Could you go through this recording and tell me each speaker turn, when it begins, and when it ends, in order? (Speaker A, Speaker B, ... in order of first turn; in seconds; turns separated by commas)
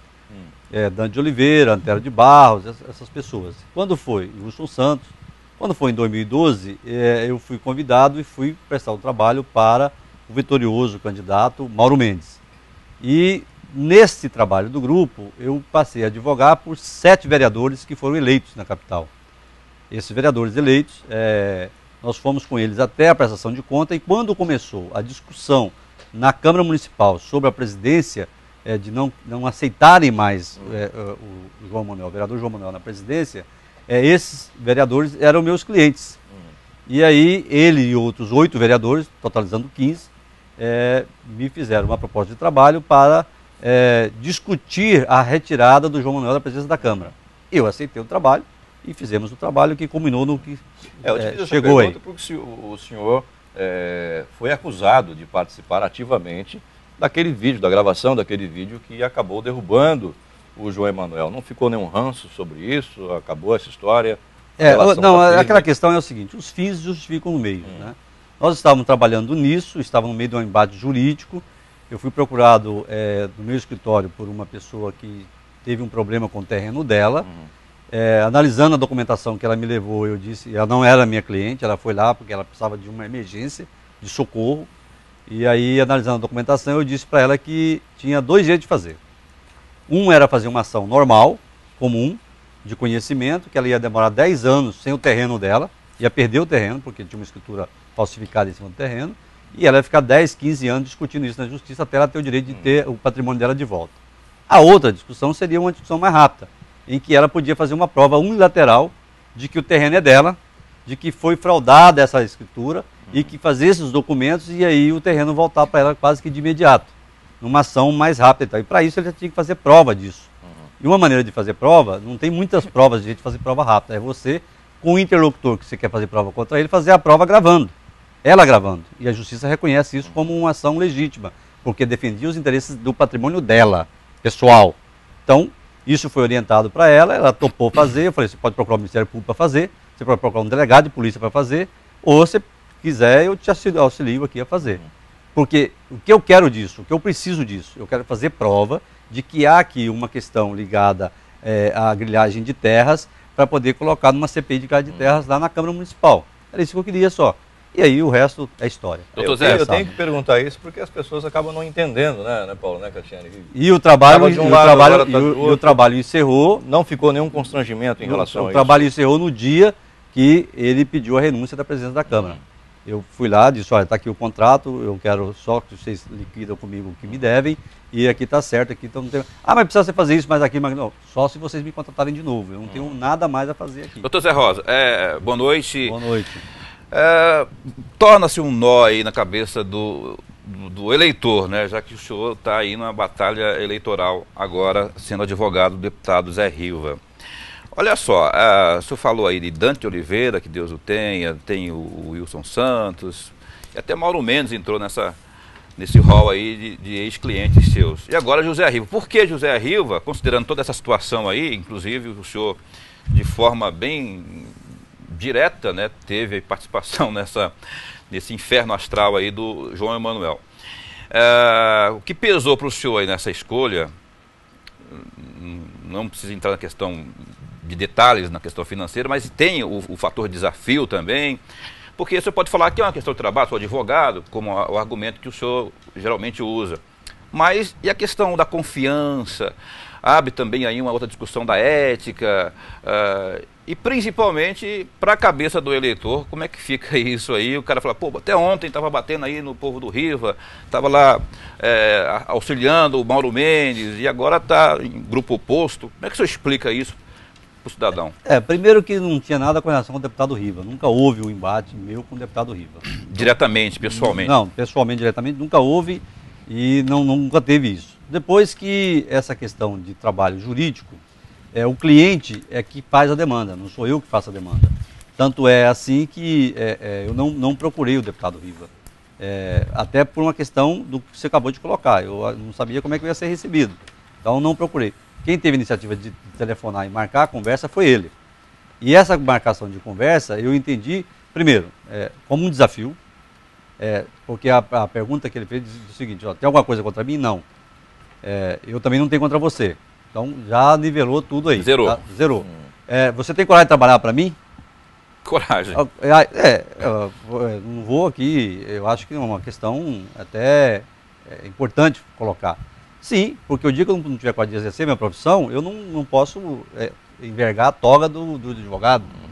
Speaker A: 0.7-12.4, Speaker A: 13.0-19.1, Speaker A: 19.9-36.2, Speaker A: 36.9-52.0, Speaker B: 51.0-65.7, Speaker A: 64.6-77.3, Speaker B: 77.2-77.5, Speaker A: 77.9-84.7, Speaker A: 85.3-89.0, Speaker A: 89.9-103.9, Speaker A: 104.5-120.3, Speaker A: 120.8-127.7, Speaker A: 128.2-144.8, Speaker A: 145.3-159.9, Speaker C: 159.2-159.9, Speaker B: 159.2-163.5, Speaker A: 163.5-166.6, Speaker B: 164.0-165.8, Speaker B: 166.6-168.9, Speaker A: 168.0-184.1, Speaker C: 184.0-186.0, Speaker A: 185.8-186.4, Speaker C: 186.9-197.0, Speaker C: 197.7-205.2, Speaker C: 205.8-212.6, Speaker C: 213.1-214.6, Speaker C: 215.1-217.5, Speaker C: 218.1-220.4, Speaker C: 221.1-223.9, Speaker C: 224.9-231.4, Speaker C: 232.0-236.8, Speaker C: 237.3-257.0, Speaker C: 257.6-258.1, Speaker A: 258.2-263.3, Speaker C: 262.9-264.4, Speaker A: 263.9-271.0, Speaker A: 271.5-278.7, Speaker A: 279.2-288.1, Speaker A: 288.8-293.0, Speaker A: 293.8-297.4, Speaker A: 298.2-304.4, Speaker C: 301.6-302.0, Speaker C: 305.2-305.8, Speaker A: 305.7-319.1